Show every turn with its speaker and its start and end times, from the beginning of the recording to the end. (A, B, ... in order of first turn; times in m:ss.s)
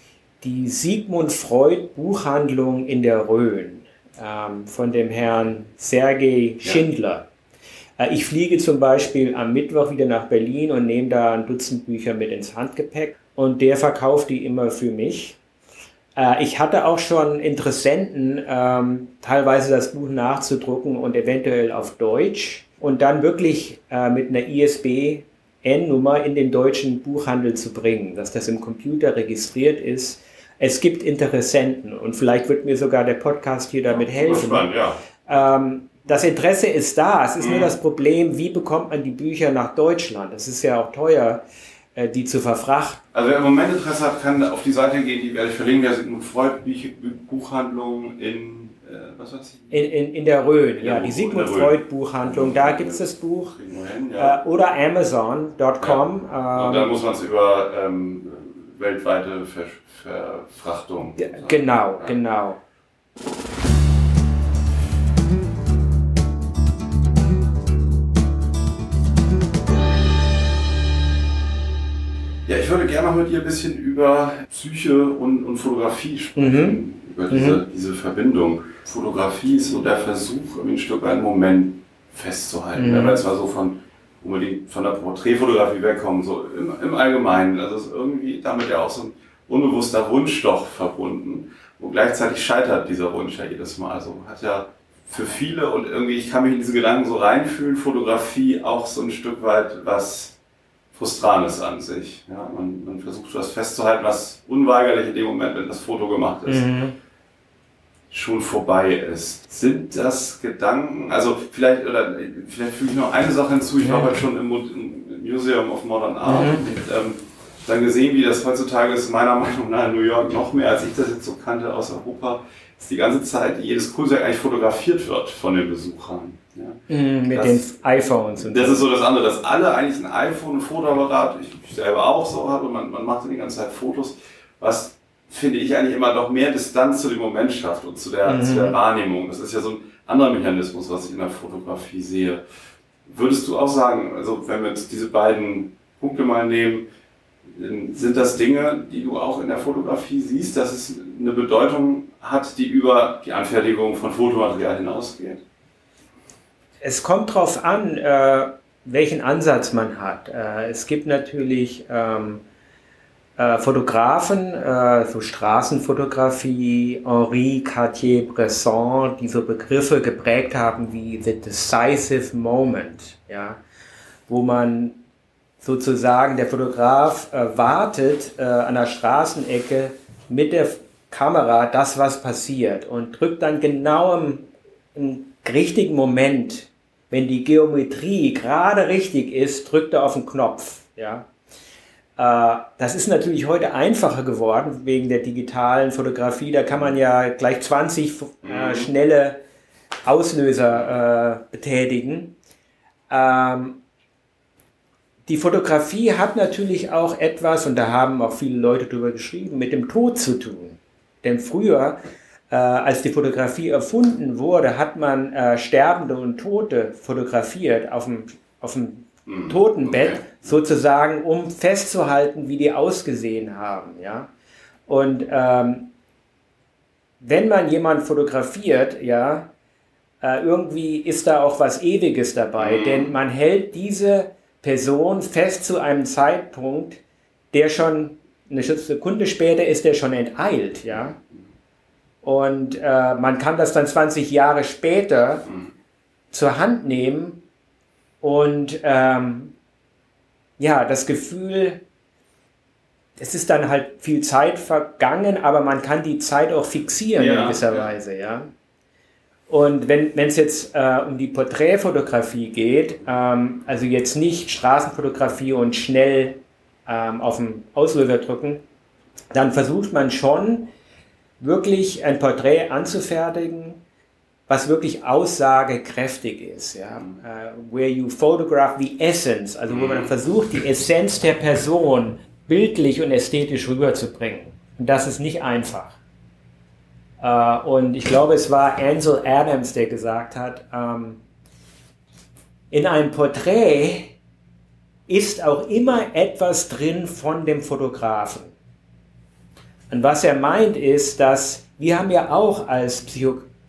0:00.4-0:07.3 A
0:08.0-0:15.4 A
0:16.2-0:34.7 A
0:33.9-0:35.0 B
0:35.2-0:41.4 A
0:37.4-0:37.7 B
0:41.9-0:43.0 A
0:43.1-0:49.7 B
0:49.7-0:53.5 A
0:50.8-0:54.4 B
0:54.2-0:56.9 A
0:55.8-1:02.2 B
1:01.2-1:02.6 A
1:12.4-1:40.4 B
1:16.4-1:17.6 A
1:22.8-1:23.2 A
1:40.9-1:46.7 B
1:46.5-1:47.0 A
1:48.1-2:07.6 B
1:53.8-1:54.2 A
1:56.2-1:56.6 A
2:06.9-2:08.8 A
2:08.4-2:22.4 B
2:18.2-2:18.8 A
2:23.0-2:26.9 B
2:27.5-2:35.4 B
2:36.8-2:42.4 A
2:43.4-2:53.6 A
2:54.3-2:55.0 A
2:55.6-3:11.3 A
3:12.2-3:19.4 A
3:18.4-3:18.9 B
3:20.0-3:22.4 A
3:23.1-3:23.8 A
3:25.2-3:44.3 A
3:39.3-3:40.4 B
3:44.9-3:45.9 A
3:47.2-3:49.5 A
3:50.2-3:57.0 A
3:52.6-3:53.2 B
3:57.5-4:01.2 A
4:00.9-4:01.4 B
4:02.2-4:05.4 A
4:06.3-4:07.4 A
4:08.2-4:09.5 A
4:10.6-4:11.8 A
4:13.2-4:18.5 A
4:17.2-4:17.9 B
4:19.5-4:28.6 A
4:29.3-4:30.7 A
4:31.4-4:33.8 A
4:34.5-4:46.0 A
4:39.7-4:40.1 B
4:47.2-4:51.2 A
4:52.7-4:54.2 A
4:55.1-4:58.5 A
4:59.9-5:03.5 A